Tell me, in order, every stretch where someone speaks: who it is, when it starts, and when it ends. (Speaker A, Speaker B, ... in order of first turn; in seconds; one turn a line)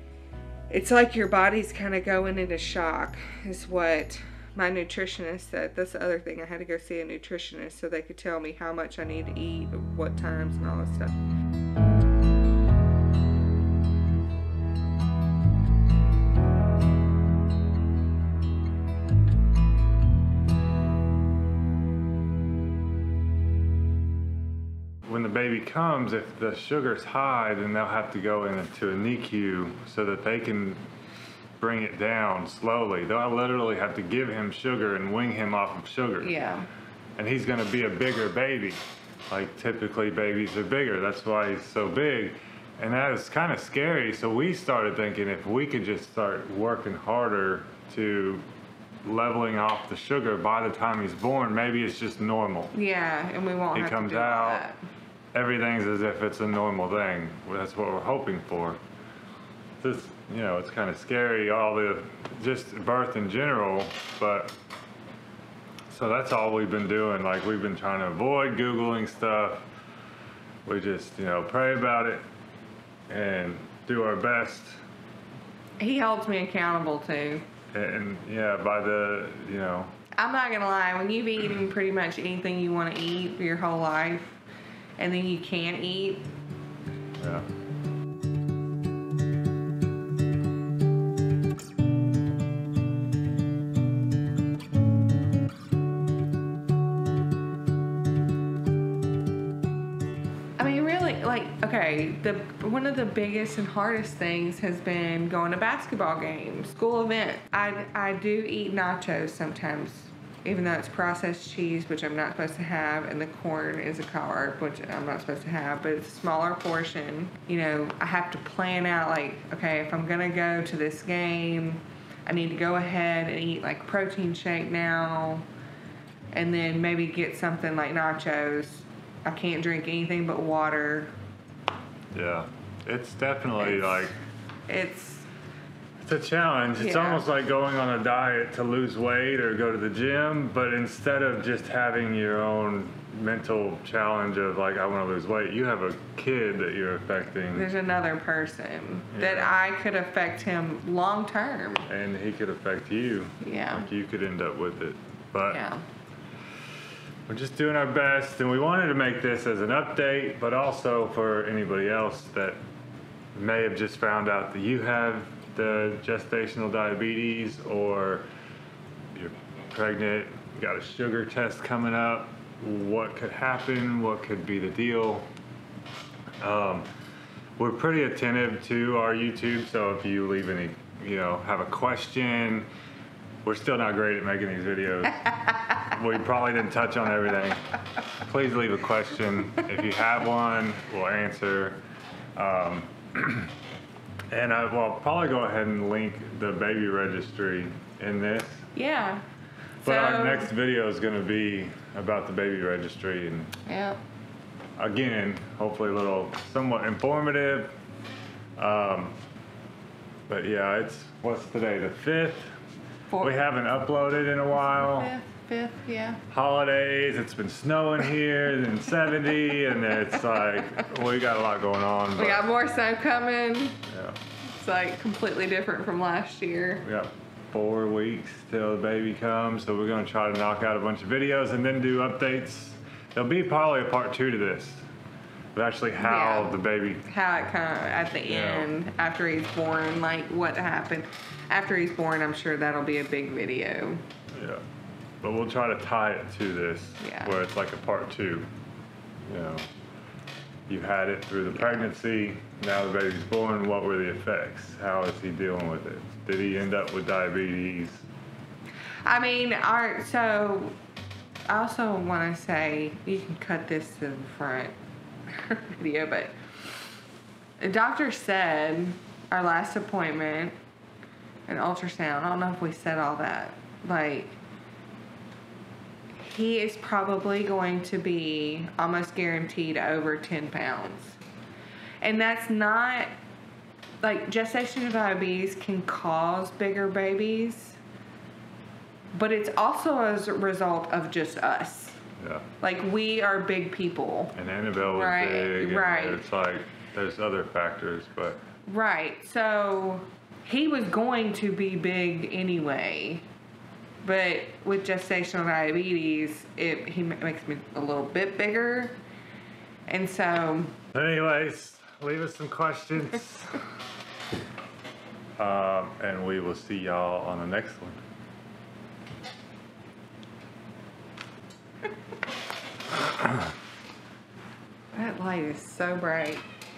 Speaker A: 0.7-11.2
Speaker B: 25.1-30.8
Speaker B: 31.6-36.3
Speaker A: 36.2-36.7
Speaker B: 37.2-38.8
Speaker B: 39.3-48.4
Speaker B: 49.0-52.7
Speaker A: 52.7-54.8
Speaker B: 53.7-54.7
Speaker B: 55.3-58.8
Speaker B: 59.8-64.5
Speaker B: 65.9-69.7
Speaker B: 70.7-72.2
Speaker B: 73.1-74.8
Speaker A: 75.8-77.5
Speaker B: 77.7-79.9
Speaker A: 80.2-84.4
Speaker A: 85.0-86.3
Speaker B: 87.2-87.5
Speaker A: 100.6-125.5
Speaker A: 126.3-131.1
Speaker B: 132.1-134.1
Speaker A: 133.6-134.1
Speaker A: 134.7-135.3
Speaker B: 136.0-147.7
Speaker A: 136.8-137.3
Speaker A: 147.5-151.9
Speaker B: 149.1-149.6
Speaker B: 151.9-155.6
Speaker A: 153.4-153.9
Speaker A: 155.4-155.8
Speaker B: 157.3-162.6
Speaker B: 163.3-168.3
Speaker B: 169.1-175.3
Speaker B: 176.4-176.9
Speaker B: 177.6-182.7
Speaker B: 183.4-187.6
Speaker B: 188.2-191.8
Speaker B: 192.4-193.5
Speaker B: 194.3-198.7
Speaker A: 198.7-199.2
Speaker B: 199.8-203.5
Speaker A: 199.8-200.5
Speaker A: 203.7-204.0
Speaker B: 204.8-207.7
Speaker B: 208.6-209.2
Speaker B: 210.3-212.5
Speaker A: 213.1-213.4
Speaker B: 213.2-215.1
Speaker A: 214.6-216.2
Speaker B: 216.3-222.4
Speaker A: 220.2-220.6
Speaker A: 222.2-223.8
Speaker B: 223.9-224.2
Speaker A: 224.5-226.8
Speaker B: 226.8-234.8
Speaker B: 235.6-237.0
Speaker A: 236.0-244.0
Speaker B: 238.2-238.7
Speaker B: 244.3-244.6
Speaker B: 245.2-248.5
Speaker A: 247.0-247.4
Speaker B: 249.3-249.7
Speaker B: 250.7-258.1
Speaker A: 251.5-251.9
Speaker A: 259.1-260.8
Speaker A: 261.5-264.8
Speaker A: 265.4-266.3
Speaker A: 267.6-270.6
Speaker A: 271.5-274.4
Speaker A: 276.2-281.2
Speaker A: 282.0-283.1
Speaker A: 284.0-287.8
Speaker A: 289.1-292.0
Speaker B: 292.2-292.5
Speaker A: 292.6-294.3
Speaker B: 294.4-298.4
Speaker A: 294.9-296.2
Speaker A: 298.7-303.2
Speaker A: 304.0-309.0
Speaker A: 309.9-310.8
Speaker B: 310.9-313.6
Speaker B: 315.4-318.0
Speaker A: 324.9-326.4